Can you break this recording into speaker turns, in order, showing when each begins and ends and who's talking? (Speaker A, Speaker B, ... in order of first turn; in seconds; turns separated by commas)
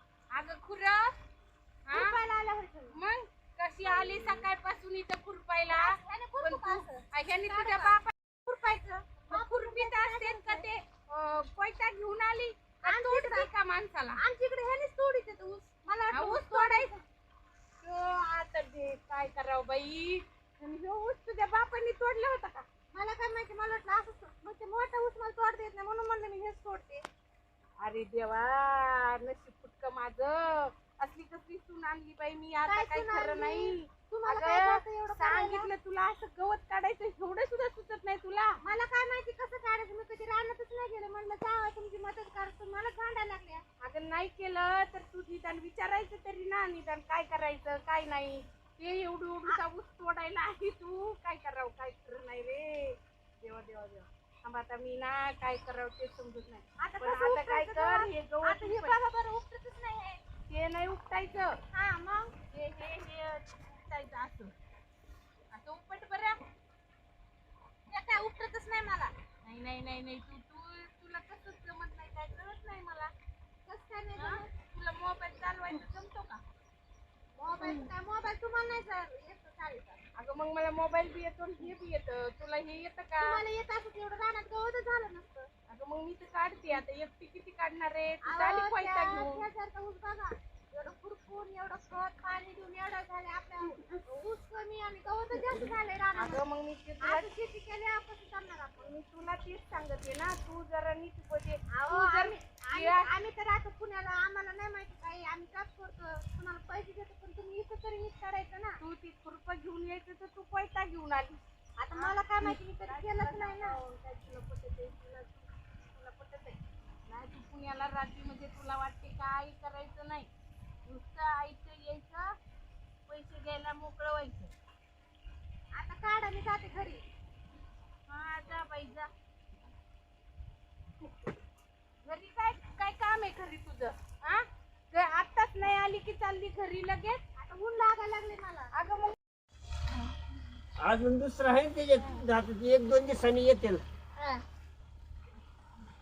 Speaker A: 0.3-1.1, Speaker A: 1.9-2.1, Speaker B: 1.9-3.0, Speaker A: 2.9-14.2, Speaker B: 3.8-4.5, Speaker B: 5.7-8.0, Speaker B: 8.7-10.7, Speaker B: 12.8-13.5, Speaker B: 14.2-17.0, Speaker A: 16.1-16.9, Speaker A: 17.8-22.6, Speaker B: 22.9-27.0, Speaker A: 27.8-38.6, Speaker B: 32.6-35.7, Speaker B: 38.6-43.6, Speaker A: 43.8-59.0, Speaker B: 56.8-60.2, Speaker A: 60.5-61.5, Speaker B: 61.7-62.3, Speaker A: 62.5-64.5, Speaker A: 65.5-66.4, Speaker B: 67.9-69.1, Speaker A: 69.4-73.1, Speaker B: 73.7-74.5, Speaker A: 74.2-76.4, Speaker B: 77.3-80.0, Speaker A: 77.6-77.9, Speaker A: 80.2-83.4, Speaker B: 83.2-85.5, Speaker A: 85.7-89.5, Speaker B: 88.2-96.4, Speaker A: 96.1-97.3, Speaker B: 97.0-98.9, Speaker A: 98.8-103.1, Speaker B: 101.7-108.8, Speaker A: 108.8-111.4, Speaker B: 111.8-113.8, Speaker A: 111.9-120.3, Speaker A: 120.8-122.3, Speaker A: 123.1-124.5, Speaker B: 125.7-127.0, Speaker A: 128.1-129.1, Speaker A: 132.0-137.2, Speaker B: 137.4-138.7, Speaker A: 138.7-139.1, Speaker C: 140.8-143.8